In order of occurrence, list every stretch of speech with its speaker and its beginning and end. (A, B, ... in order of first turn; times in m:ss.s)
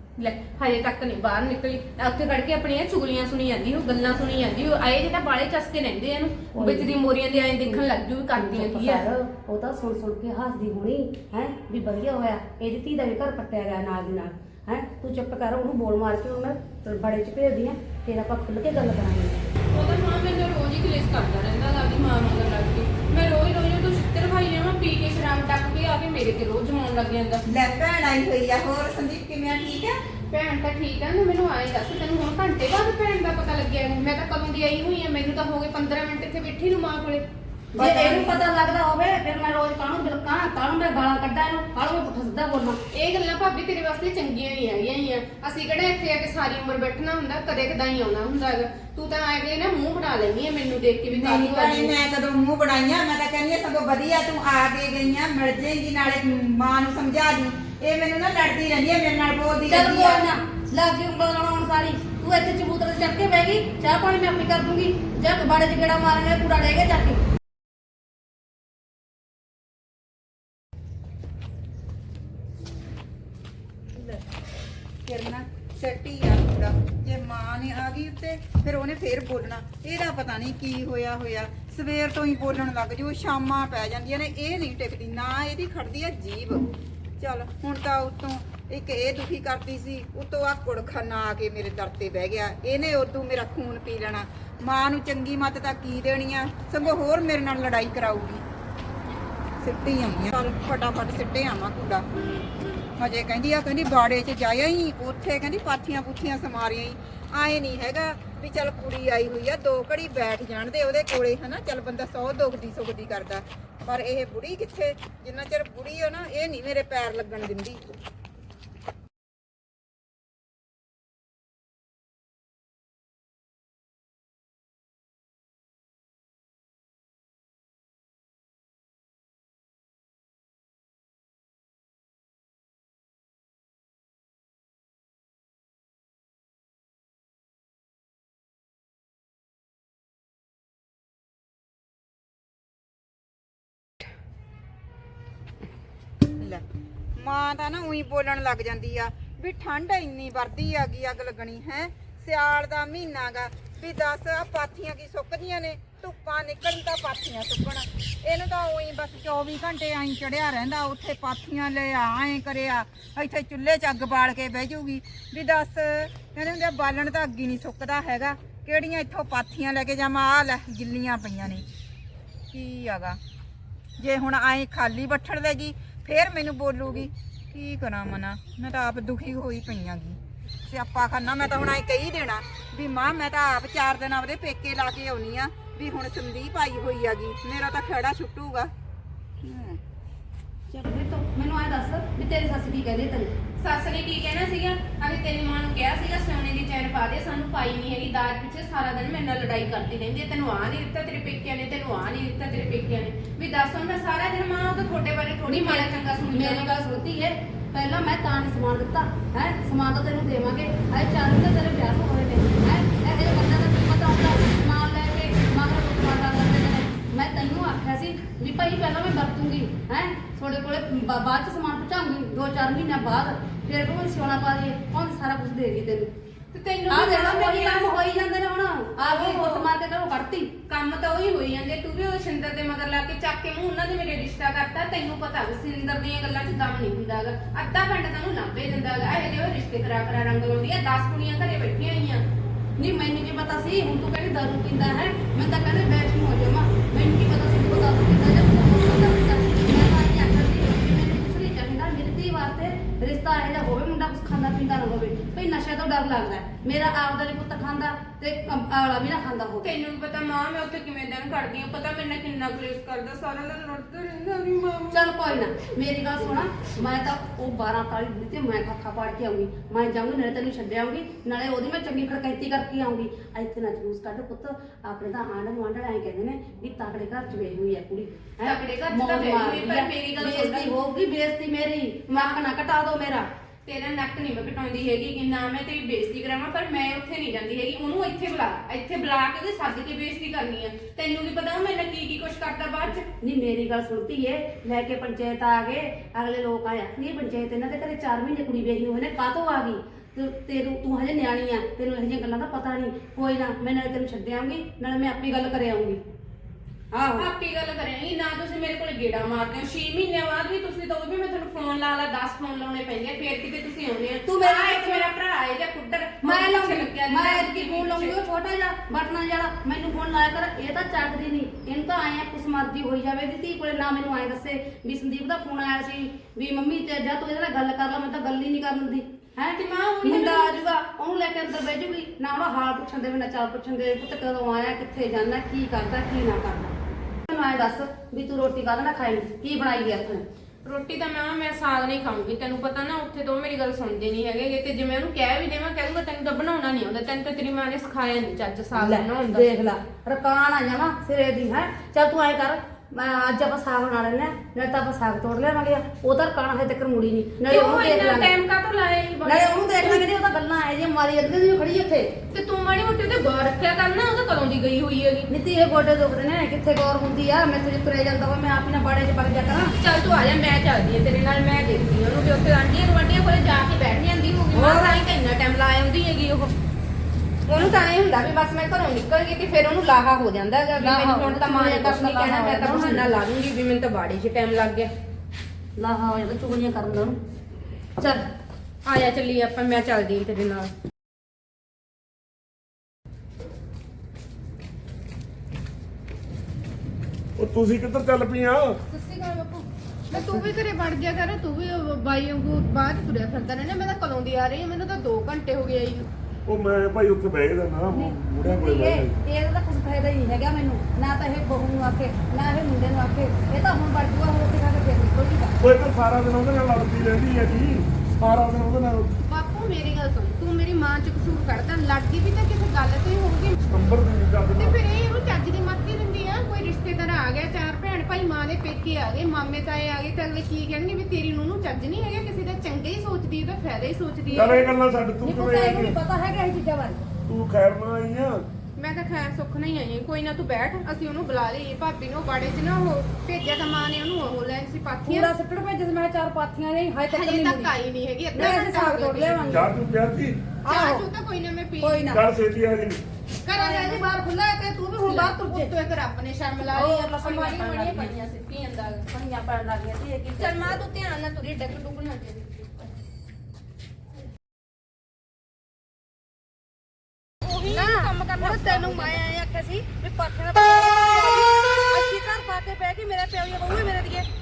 0:00.2-0:09.1 A
0:06.6-0:06.9 B
0:08.3-0:19.4 B
0:19.7-0:27.4 A
0:27.5-0:30.0 C
0:30.3-0:38.4 A
0:37.8-0:42.8 B
0:42.9-0:52.0 A
0:51.1-1:00.2 C
0:59.7-1:07.2 B
1:15.1-1:38.4 C
1:39.6-1:42.0 C
1:43.0-1:57.8 C
2:27.2-2:51.7 C
2:52.5-2:53.2 C
2:54.0-3:08.7 C
3:09.4-3:09.8 C
3:10.7-3:13.3 B
3:13.6-3:26.7 A
3:25.5-3:46.1 B
3:46.5-3:47.9 A
3:46.9-3:50.5 B
3:49.0-3:49.7 A
3:50.7-4:02.2 A
4:02.8-4:19.7 B
4:19.6-4:25.1 A
4:24.9-4:43.3 B
4:38.4-4:40.7 A
4:42.1-4:42.4 A
4:43.7-4:53.1 A
4:53.2-5:06.0 B
5:06.9-5:07.3 B
5:07.2-5:18.2 A
5:14.3-5:15.1 B
5:16.2-5:36.7 B
5:29.6-5:30.6 A
5:37.3-5:40.2 B
5:40.6-5:49.5 A
5:48.8-5:58.3 B
5:57.5-6:00.0 A
5:59.2-6:02.1 B
6:02.3-6:05.3 A
6:05.3-6:09.8 B
6:09.8-6:16.6 A
6:14.5-6:15.0 B
6:17.5-6:24.9 A
6:20.8-6:23.1 B
6:25.8-6:27.2 B
6:28.0-6:28.2 B
6:28.9-6:30.7 A
6:37.4-6:38.8 D
6:38.9-6:46.1 A
6:46.5-6:49.2 D
6:47.9-6:55.6 B
6:55.6-6:59.1 D
6:59.2-7:03.6 A
7:03.7-7:04.8 D
7:04.6-7:14.7 A
7:14.3-7:16.0 D
7:15.2-7:17.0 B
7:17.3-7:18.4 D
7:18.8-7:25.3 A
7:25.0-7:27.7 B
7:27.1-7:29.5 A
7:28.3-7:29.7 B
7:29.5-7:30.4 D
7:30.6-7:31.0 B
7:30.7-7:32.1 A
7:31.8-7:32.2 B
7:32.1-7:33.0 D
7:33.4-7:34.0 A
7:33.5-7:35.7 B
7:35.0-7:39.1 A
7:36.7-7:38.1 B
7:39.1-7:40.8 B
7:40.4-7:42.7 A
7:47.4-7:49.2 A
7:47.6-7:54.3 B